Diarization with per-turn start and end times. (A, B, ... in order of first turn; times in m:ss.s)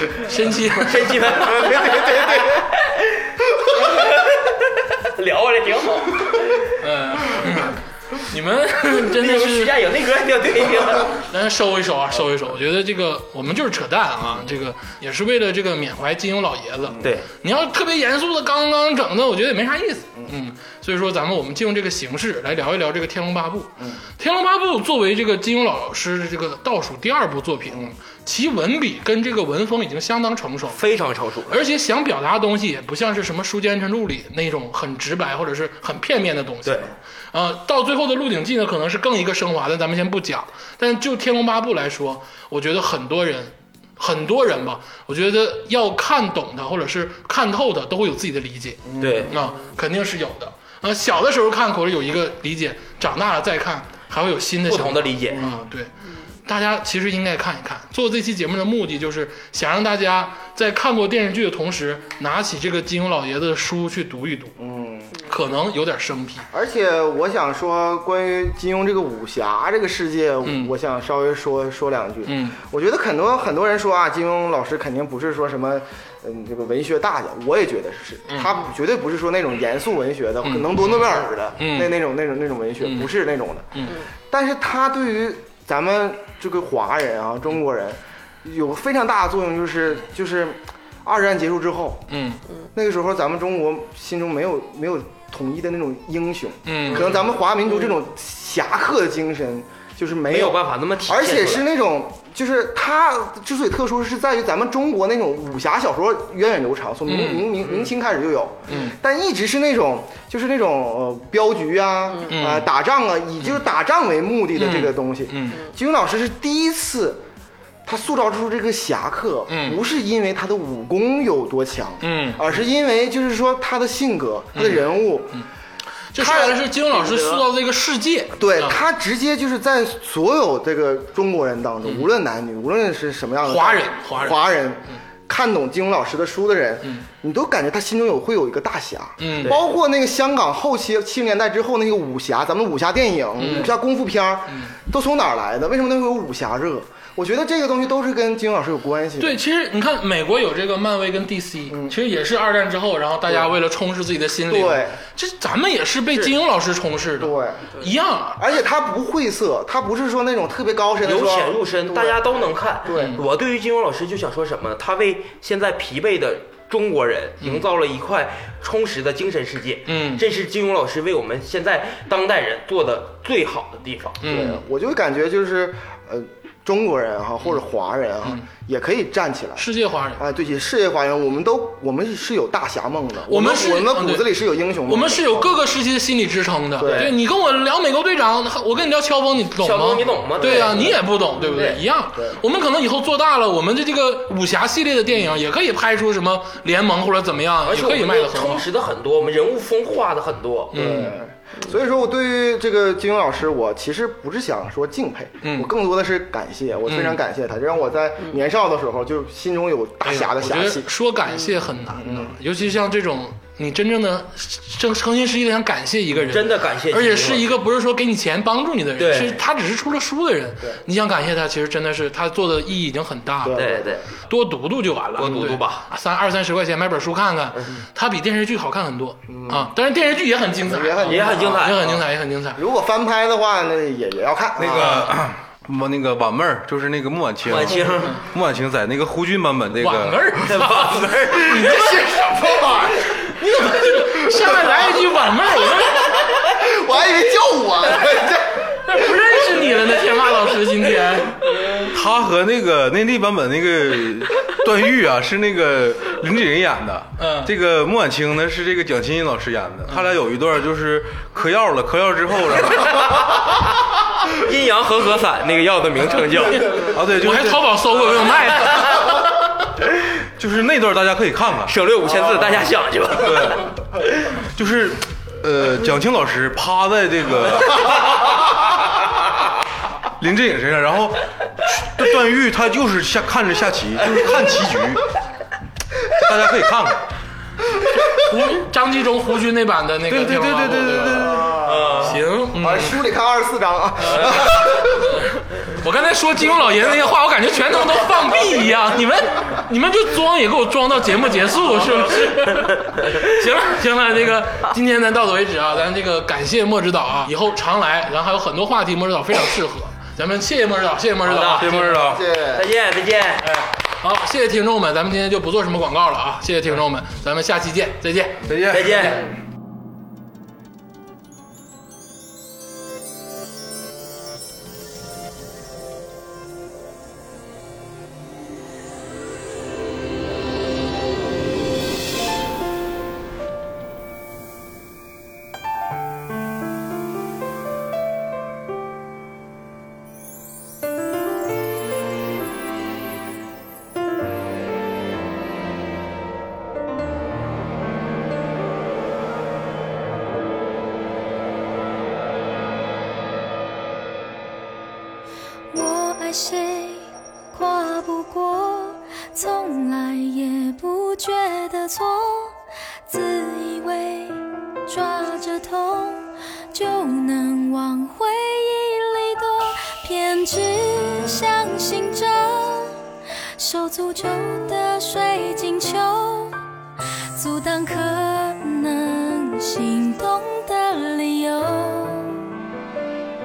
0:00.2-0:01.2 A
0:00.8-0:06.7 B
0:01.3-0:02.6 C
0:06.8-0:09.7 A
0:09.0-0:11.2 B
0:11.3-0:30.8 A
0:17.0-0:17.3 B
0:30.8-0:31.6 B
0:31.5-0:55.9 A
0:36.6-0:36.9 B
0:48.9-0:49.3 C
0:49.0-0:49.4 B
0:54.7-0:55.4 B
0:55.3-0:55.6 C
0:56.5-1:04.6 A
1:04.6-1:05.2 C
1:05.3-1:06.5 A
1:06.5-1:32.1 C
1:10.4-1:10.7 A
1:12.3-1:12.6 A
1:18.3-1:18.6 A
1:20.4-1:21.9 A
1:22.8-1:23.1 A
1:32.1-1:32.4 A
1:32.7-1:57.2 C
1:36.7-1:37.2 A
1:40.3-1:41.6 B
1:47.1-1:47.5 A
1:47.6-1:47.9 B
1:48.7-1:49.0 A
1:52.3-1:52.7 A
1:54.6-1:55.6 A
1:57.9-2:05.4 C
1:59.5-1:59.8 A
2:02.0-2:02.4 A
2:04.6-2:05.4 A
2:06.1-2:08.8 A
2:06.2-2:07.4 C
2:08.4-2:29.4 C
2:11.8-2:12.1 A
2:13.4-2:14.4 A
2:19.2-2:19.6 A
2:23.4-2:23.8 A
2:29.2-2:38.4 A
2:31.7-2:32.0 C
2:33.3-2:33.5 C
2:34.5-2:35.0 C
2:37.2-2:37.7 C
2:38.4-2:43.2 C
2:41.0-2:54.2 B
2:42.9-2:43.2 A
2:49.9-2:50.2 A
2:54.2-2:54.6 A
2:54.3-3:05.6 C
2:59.6-3:00.2 A
3:03.3-3:04.3 A
3:04.9-3:18.7 A
3:06.8-3:07.1 C
3:06.8-3:07.2 B
3:09.6-3:11.8 B
3:10.4-3:11.0 C
3:12.1-3:12.4 C
3:17.6-3:20.8 B
3:20.7-3:21.2 A
3:20.7-3:30.9 C
3:25.4-3:25.7 A
3:26.9-3:27.2 A
3:30.0-3:43.6 A
3:31.9-3:32.4 C
3:36.3-3:37.6 B
3:39.0-3:39.4 B
3:43.4-3:44.0 C
3:43.6-3:44.1 B
3:44.3-3:52.6 A
3:45.2-3:45.8 B
3:49.3-3:49.7 C
3:50.6-3:51.9 C
3:51.1-3:52.0 B
3:52.6-3:55.1 C
3:54.6-4:00.3 D
3:54.7-3:55.1 A
3:57.4-3:58.2 B
3:59.8-4:02.3 A
4:00.4-4:01.6 B
4:01.4-4:09.3 C
4:03.1-4:06.2 A
4:08.9-4:11.5 A
4:11.9-4:23.0 D
4:17.2-4:17.5 A
4:22.7-4:23.7 B
4:24.3-4:26.9 B
4:26.9-4:27.6 D
4:27.2-4:29.3 A
4:28.7-4:29.0 B
4:30.4-4:31.8 D
4:31.7-4:33.7 B
4:33.2-4:33.7 D
4:34.5-4:38.4 D
4:40.2-4:45.1 D
4:46.1-4:47.0 D
4:47.9-4:51.5 A
4:50.1-4:51.6 D
4:50.7-4:55.2 C
4:51.6-4:52.2 B
4:52.0-4:53.0 A
4:54.0-4:54.4 A
4:54.2-4:54.4 B
4:55.6-5:11.8 A
5:11.2-5:11.7 B
5:11.6-5:12.2 D
5:11.7-5:12.7 C
5:12.5-5:13.5 B
5:13.4-5:18.4 A
5:18.4-5:19.2 D
5:18.7-5:19.2 B
5:55.7-6:13.0 E
6:13.6-6:16.6 E
6:17.4-6:22.5 E